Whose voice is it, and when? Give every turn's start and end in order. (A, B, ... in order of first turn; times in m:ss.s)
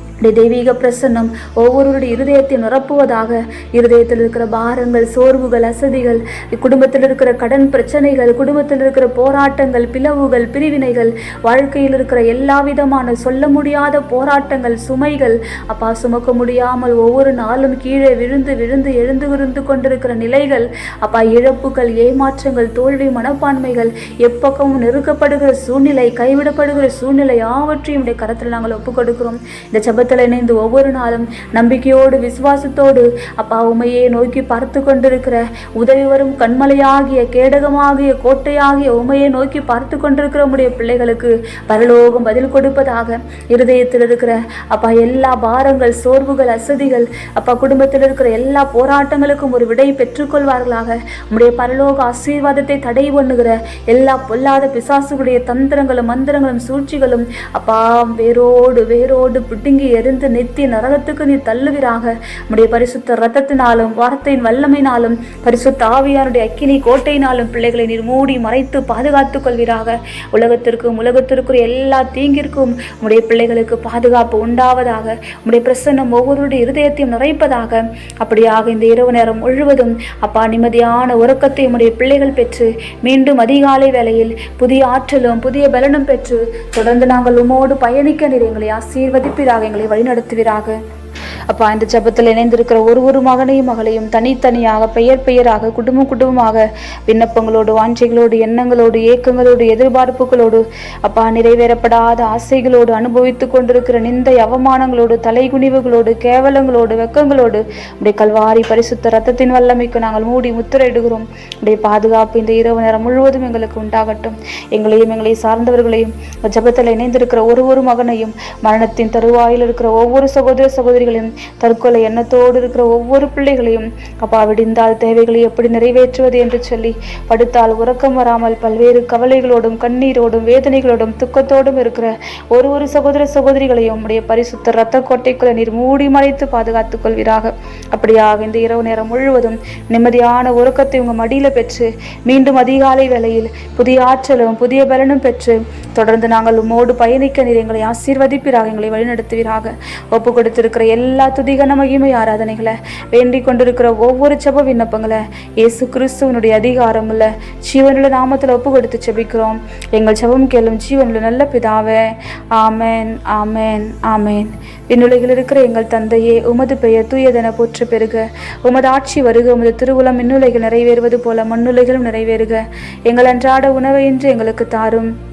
0:00.2-1:30.8 A
1:31.5-2:55.1 A